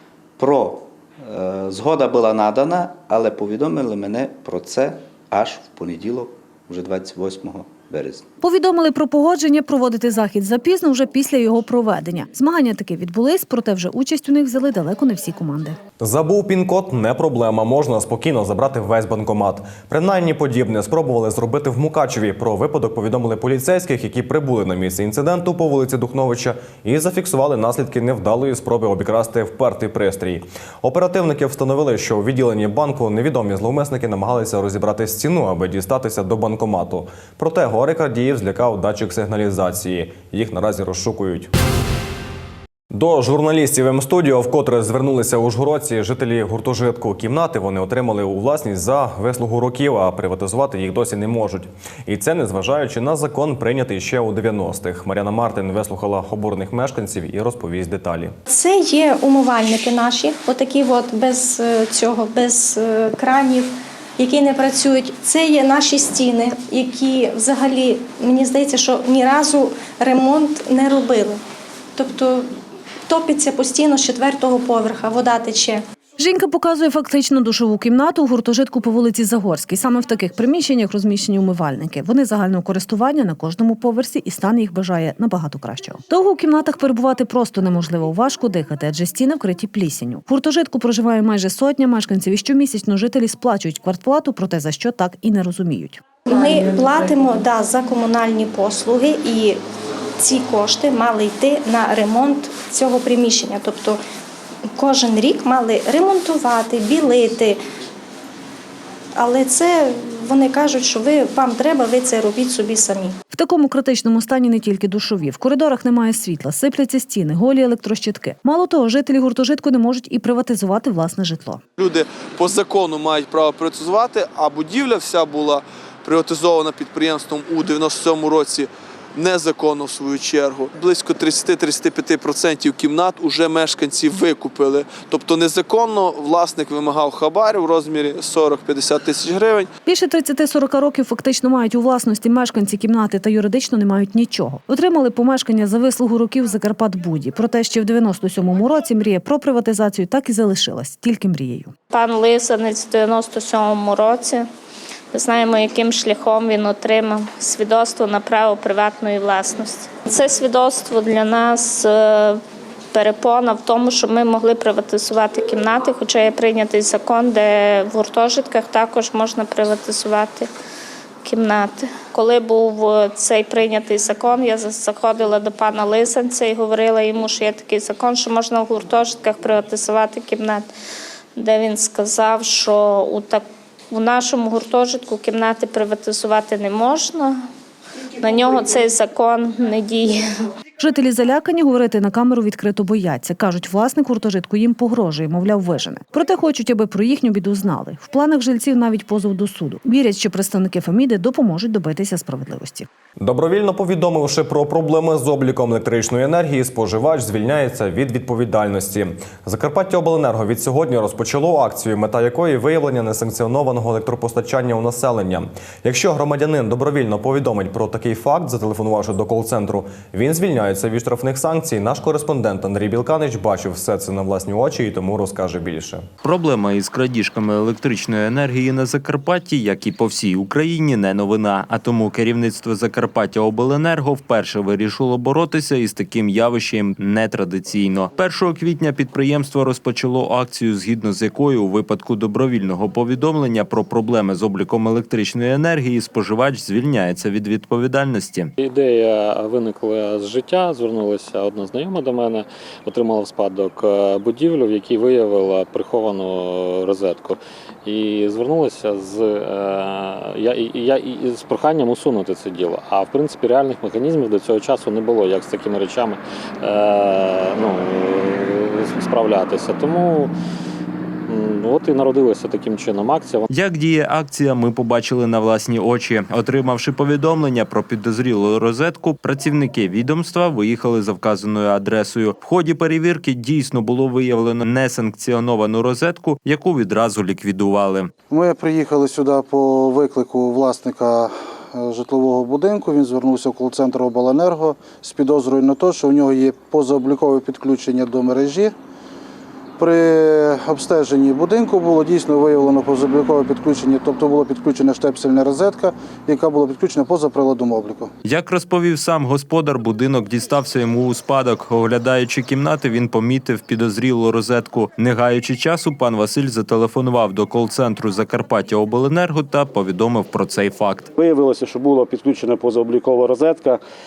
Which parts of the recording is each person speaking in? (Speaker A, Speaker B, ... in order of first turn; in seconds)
Speaker A: 0.4-8.2
Speaker B: 8.4-15.8, 76.2-96.0, 113.3-121.6, 139.8-151.7, 190.8-202.9
Speaker C: 16.0-41.5, 42.9-58.3, 203.2-226.1
Speaker D: 58.5-71.4, 71.9-72.5, 73.1-75.8, 96.3-99.6, 100.2-104.0, 104.7-107.6, 109.2-113.2
Speaker E: 121.8-139.7
Speaker F: 151.9-154.5, 155.1-162.4, 162.9-170.5, 171.2-180.7, 181.3-187.4, 188.2-190.2
Speaker G: 226.2-248.5, 273.5-288.1, 308.2-321.1
Speaker H: 248.6-270.3, 271.3-273.5
Speaker I: 288.3-298.8, 299.8-308.1
Speaker J: 321.1-323.8